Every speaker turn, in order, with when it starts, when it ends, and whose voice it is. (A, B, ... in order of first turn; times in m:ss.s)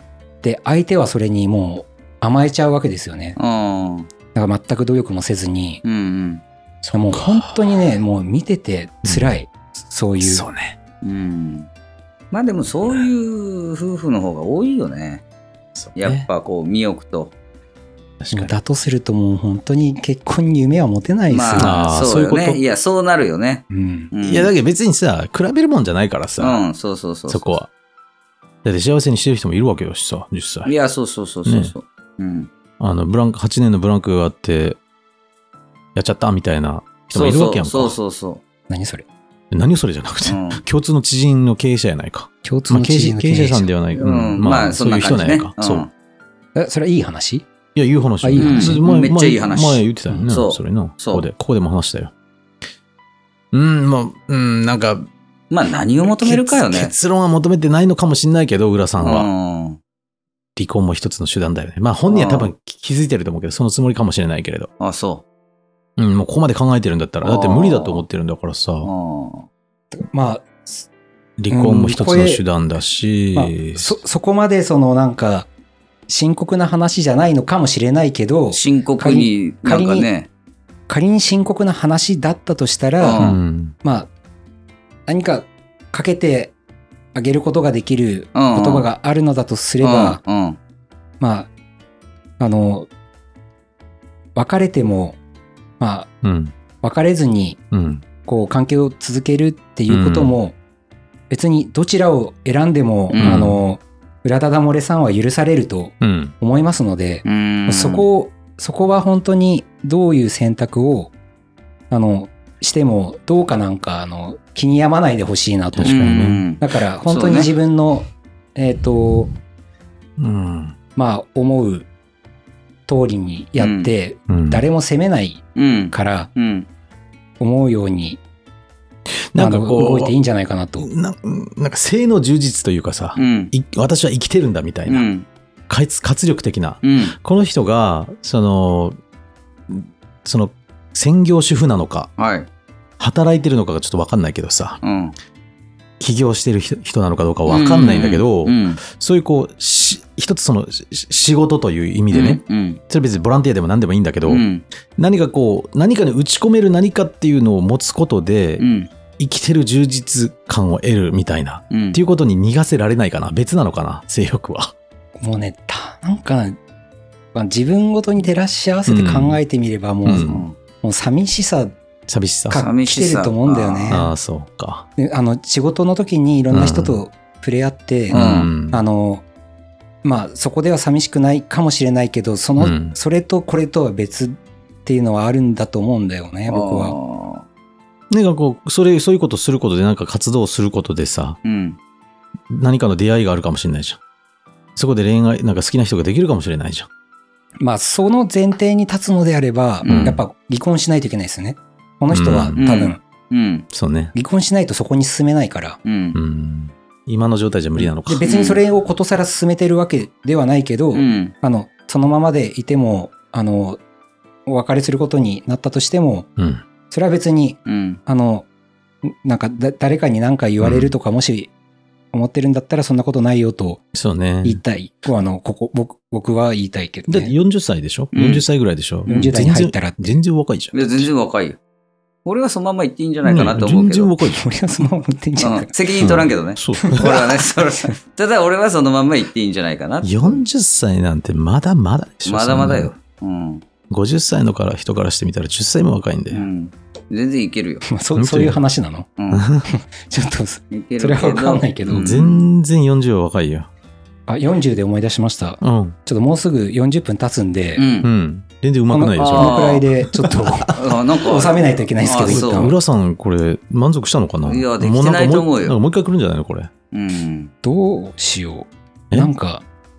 0:00.4-0:03.4 A
0:03.4-0:04.1 B
0:04.3-0:05.8 A
0:05.8-0:06.4 B
0:06.8-0:07.8 C
0:06.9-0:10.5 A
0:09.0-0:09.3 C
0:10.2-0:10.8 C
0:11.0-0:11.7 B
0:12.3-0:15.2 B
0:15.8-0:16.3 C
0:16.0-0:17.3 B
0:18.2-0:18.6 C
0:18.3-0:21.8 A
0:21.3-0:24.5 B
0:21.6-0:22.6 C
0:23.7-0:24.1 A
0:24.2-0:26.6 C
0:26.4-0:27.4 B
0:27.3-0:27.7 C
0:28.6-0:30.7 C
0:30.7-0:32.5 B
0:31.5-0:31.7 C
0:32.8-0:34.8 C
0:36.0-0:38.0 C
0:37.1-0:38.4 B
0:38.7-0:39.0 A
0:39.5-0:45.9 C
0:40.3-0:40.6 B
0:42.4-0:43.7 A
0:43.9-0:45.9 B
0:46.6-0:47.4 A
0:47.8-0:52.1 C
0:48.2-0:48.8 A
0:48.4-0:51.3 B
0:53.5-0:55.1 C
0:55.5-0:56.9 B
0:56.1-0:59.3 C
0:59.0-0:59.8 B
1:00.6-1:04.7 C
1:02.1-1:02.5 B
1:04.8-1:05.2 B
1:06.0-1:08.9 C
1:07.2-1:08.0 B
1:08.8-1:09.5 B
1:09.9-1:10.9 A
1:11.4-1:14.0 C
1:11.5-1:12.4 A
1:13.3-1:15.5 A
1:16.1-1:20.1 A
1:18.5-1:20.3 B
1:20.9-1:23.2 A
1:23.0-1:23.4 B
1:23.2-1:23.8 C
1:23.8-1:24.1 A
1:25.1-1:26.5 A
1:27.2-1:30.2 A
1:28.4-1:28.9 B
1:29.8-1:30.6 B
1:31.2-1:31.5 A
1:32.4-1:32.9 A
1:34.4-1:35.2 A
1:35.8-1:36.1 A
1:36.2-1:36.6 C
1:36.8-1:37.6 A
1:37.7-1:38.0 C
1:38.2-1:40.6 A
1:39.9-1:40.4 C
1:41.3-1:51.1 A
1:43.1-1:43.4 B
1:43.2-1:43.6 C
1:46.0-1:46.4 C
1:47.2-1:48.1 B
1:51.9-1:59.4 A
1:55.7-1:56.4 C
1:55.8-1:57.5 B
2:00.2-2:00.8 C
2:01.0-2:01.9 A
2:02.9-2:06.3 A
2:03.6-2:03.9 B
2:04.3-2:04.6 C
2:05.6-2:06.7 B
2:07.4-2:08.2 A
2:09.1-2:10.1 C
2:09.4-2:10.9 A
2:10.8-2:15.1 C
2:13.2-2:13.5 B
2:14.9-2:15.3 B
2:15.7-2:19.0 C
2:16.8-2:17.2 B
2:19.7-2:22.1 C
2:22.2-2:22.5 B
2:23.0-2:24.8 C
2:24.8-2:25.1 B
2:26.0-2:38.6 C
2:27.5-2:28.8 B
2:32.1-2:32.8 B
2:34.3-2:34.6 B
2:38.6-2:38.9 B
2:39.2-2:44.7 C
2:41.7-2:42.0 B
2:45.2-2:46.6 A
2:47.3-2:51.8 A
2:48.9-2:49.4 C
2:50.0-2:50.4 C
2:50.2-2:50.6 B
2:52.1-2:52.6 C
2:52.5-2:54.1 A
2:52.6-2:54.0 B
2:53.9-2:54.9 C
2:55.0-2:59.2 A
2:56.5-2:57.0 C
2:58.1-2:58.5 B
2:58.1-2:58.8 C
3:00.0-3:07.0 A
3:02.6-3:03.0 C
3:06.5-3:07.4 B
3:08.1-3:11.4 C
3:11.4-3:11.8 B
3:12.5-3:14.0 C
3:14.8-3:16.9 C
3:17.6-3:23.0 A
3:19.8-3:20.2 B
3:19.9-3:20.2 C
3:22.1-3:22.6 C
3:22.6-3:23.7 B
3:23.7-3:24.1 C
3:24.1-3:25.8 A
3:25.8-3:26.2 B
3:26.1-3:28.3 C
3:27.8-3:33.8 A
3:28.2-3:28.6 B
3:30.9-3:31.3 B
3:34.5-3:36.3 A
3:36.4-3:36.6 C
3:36.9-3:38.5 A
3:37.7-3:38.0 B
3:39.0-3:41.5 A
3:40.6-3:40.9 C
3:42.1-3:43.8 A
3:43.9-3:44.6 C
3:44.4-3:47.4 A
3:47.1-3:51.1 C
3:48.1-3:48.4 B
3:49.1-3:50.2 A
3:49.1-3:49.4 B
3:50.7-3:51.6 B
3:52.2-3:54.1 B
3:53.2-3:54.4 C
3:54.2-3:55.7 A
3:55.4-4:00.4 B
3:56.0-3:57.2 C
3:56.8-3:57.2 A
4:00.0-4:02.9 C
4:02.3-4:03.6 B
4:03.9-4:06.5 C
4:06.3-4:07.8 B
4:07.8-4:09.1 A
4:08.2-4:08.6 C
4:09.2-4:09.5 B
4:09.3-4:09.6 C
4:09.7-4:12.2 A
4:10.7-4:12.5 B
4:12.0-4:13.7 C
4:14.3-4:17.8 A
4:15.6-4:16.0 C
4:17.8-4:18.1 B
4:18.0-4:20.9 C
4:18.9-4:22.8 A
4:19.2-4:19.8 B
4:20.8-4:22.7 B
4:22.2-4:26.7 C
4:24.4-4:25.8 B
4:26.9-4:27.5 B
4:27.6-4:29.6 A